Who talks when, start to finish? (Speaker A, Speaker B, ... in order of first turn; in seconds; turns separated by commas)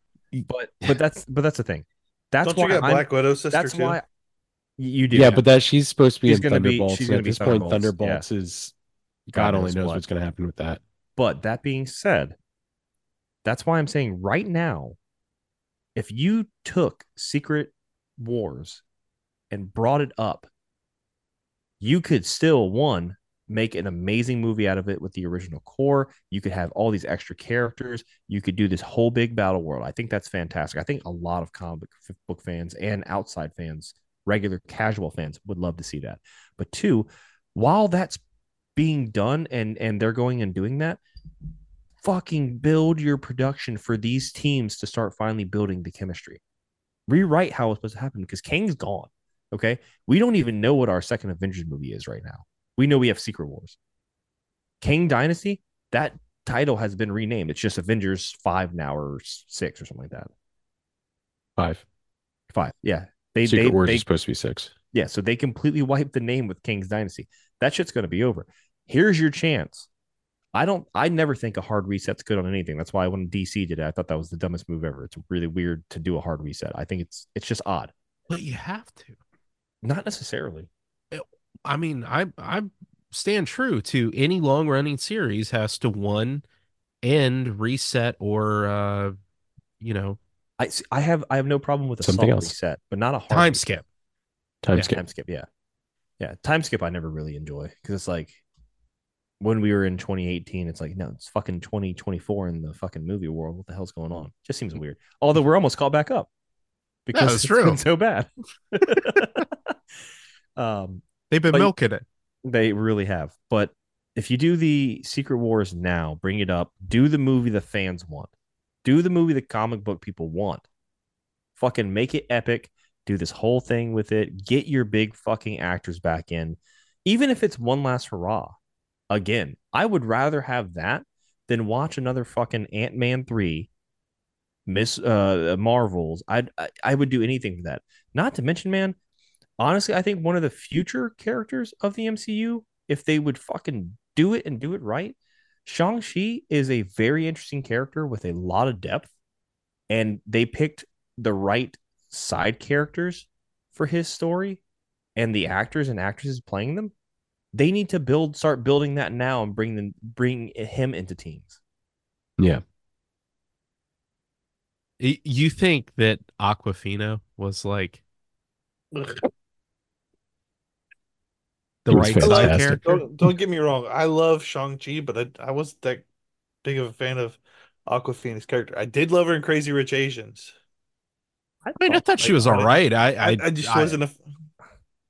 Speaker A: 0.5-4.0, Speaker B: 2.4-4.0, Speaker A: 4.8-5.4, Speaker C: 5.1-8.7, Speaker A: 6.2-8.2, Speaker A: 9.3-10.0, Speaker C: 9.3-10.8, Speaker A: 11.2-12.3, Speaker A: 13.4-15.0, Speaker A: 15.9-18.8, Speaker A: 19.5-20.5, Speaker A: 21.8-38.2, Speaker A: 38.8-41.0, Speaker A: 42.0-46.4, Speaker A: 47.1-53.8, Speaker A: 54.8-60.3, Speaker C: 61.6-61.8, Speaker A: 62.5-64.0, Speaker C: 63.4-64.7, Speaker A: 64.9-69.9, Speaker A: 70.5-77.9, Speaker D: 78.3-79.2, Speaker A: 79.8-80.7, Speaker D: 81.1-86.4, Speaker D: 87.0-89.2, Speaker D: 89.8-90.2, Speaker A: 90.6-93.8, Speaker C: 92.0-92.5, Speaker D: 93.3-93.8, Speaker C: 94.6-95.0, Speaker A: 94.9-95.5, Speaker A: 96.2-98.4, Speaker A: 99.4-106.3, Speaker A: 107.1-109.7, Speaker D: 107.1-107.8, Speaker A: 110.6-111.7, Speaker D: 111.3-112.0, Speaker A: 112.4-118.3, Speaker A: 118.8-120.6, Speaker A: 121.5-128.6, Speaker A: 129.1-133.7, Speaker A: 134.7-139.0, Speaker A: 139.6-149.1, Speaker A: 149.9-154.6, Speaker A: 155.2-156.9, Speaker A: 157.5-161.6, Speaker D: 165.0-168.0, Speaker B: 168.9-169.2, Speaker D: 171.8-173.0, Speaker C: 171.9-173.3, Speaker B: 172.2-176.1, Speaker B: 176.6-180.5, Speaker A: 181.6-182.2, Speaker D: 181.8-184.0, Speaker B: 182.2-184.2